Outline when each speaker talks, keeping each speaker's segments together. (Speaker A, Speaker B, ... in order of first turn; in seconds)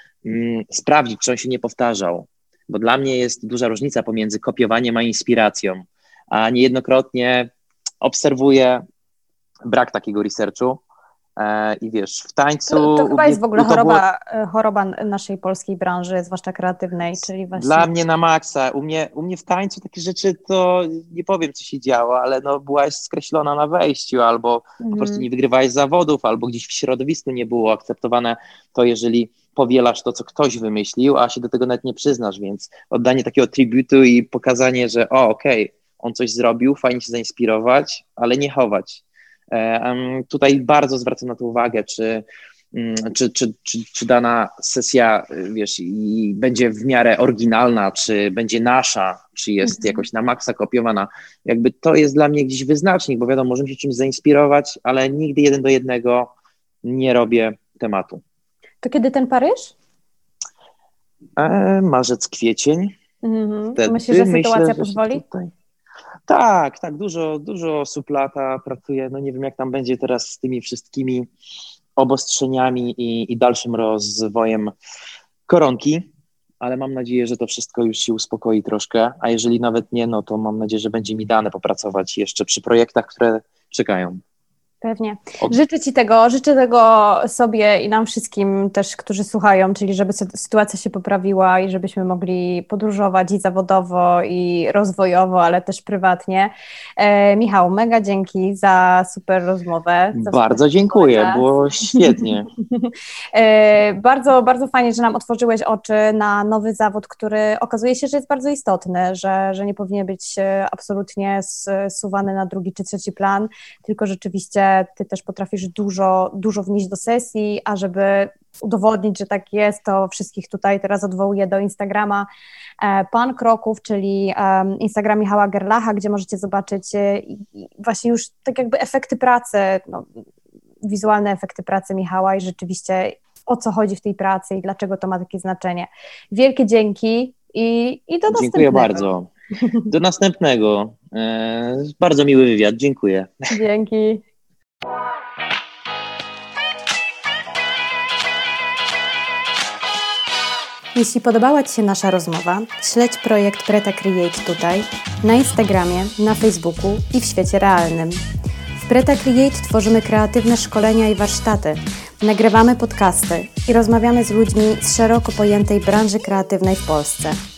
Speaker A: 0.2-7.5, 8.0-8.8, 9.7-10.8, 11.4-14.0, 17.2-56.3, 56.8-58.2, 61.4-62.9, 63.8-65.5, 66.3-71.3, 72.0-74.7, 75.5-76.0, 76.6-84.2, 100.1-102.5, 138.3-139.3, 139.9-143.3
Speaker B: 12.7-17.9, 24.8-25.2, 49.6-50.0, 58.8-59.7, 63.2-65.2, 84.8-101.5, 102.6-122.3, 122.8-130.1, 130.8-139.1, 143.5-144.2, 150.9-158.2, 158.8-167.4